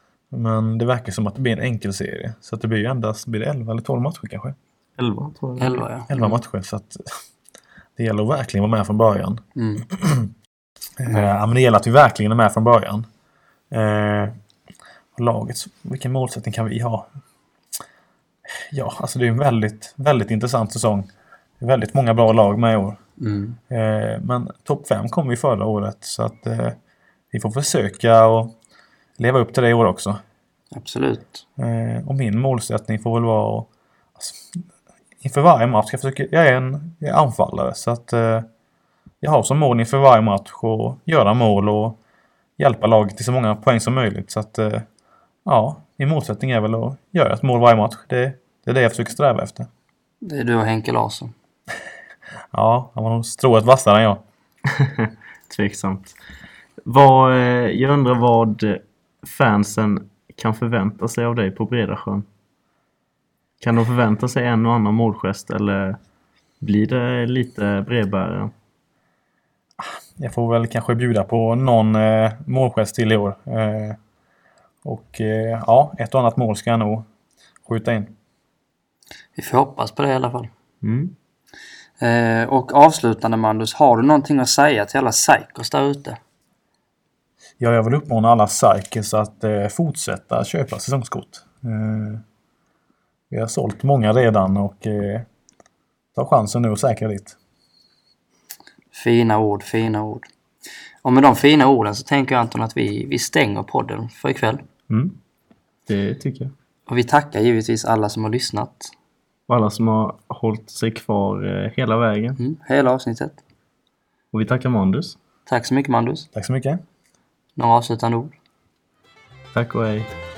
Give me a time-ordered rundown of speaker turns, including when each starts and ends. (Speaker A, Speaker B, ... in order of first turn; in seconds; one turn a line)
Speaker A: 0.3-4.6
Speaker B: 5.0-5.9
Speaker C: 5.6-6.4
Speaker A: 6.1-7.1
Speaker A: 8.0-10.3
Speaker C: 9.6-9.9
Speaker A: 11.0-13.1
Speaker A: 13.7-14.3
Speaker A: 15.2-17.1
Speaker A: 18.7-21.1
Speaker A: 21.6-23.0
Speaker C: 23.2-23.6
Speaker A: 23.7-26.8
Speaker A: 27.3-28.6
Speaker A: 29.2-30.2
Speaker C: 30.7-31.4
Speaker A: 31.6-34.4
Speaker A: 35.2-38.5
Speaker A: 39.2-42.0
Speaker A: 42.6-44.9
Speaker A: 45.5-49.7
Speaker C: 50.2-51.3
Speaker A: 52.5-54.2
Speaker B: 54.7-56.1
Speaker B: 56.9-62.3
Speaker B: 63.6-66.0
Speaker B: 66.6-68.5
Speaker A: 69.8-74.0
Speaker A: 74.8-77.1
Speaker A: 77.7-78.1
Speaker C: 79.4-80.5
Speaker B: 80.8-81.1
Speaker C: 82.0-86.2
Speaker A: 87.6-92.2
Speaker A: 93.3-95.3
Speaker A: 96.1-97.4
Speaker C: 98.9-100.3
Speaker C: 101.0-104.6
Speaker B: 104.9-105.2
Speaker B: 105.9-106.5
Speaker C: 106.9-108.9
Speaker B: 109.5-112.4
Speaker C: 112.4-113.4
Speaker B: 114.3-115.2
Speaker C: 115.5-116.3
Speaker A: 116.3-116.8
Speaker C: 117.6-118.4
Speaker B: 119.5-120.1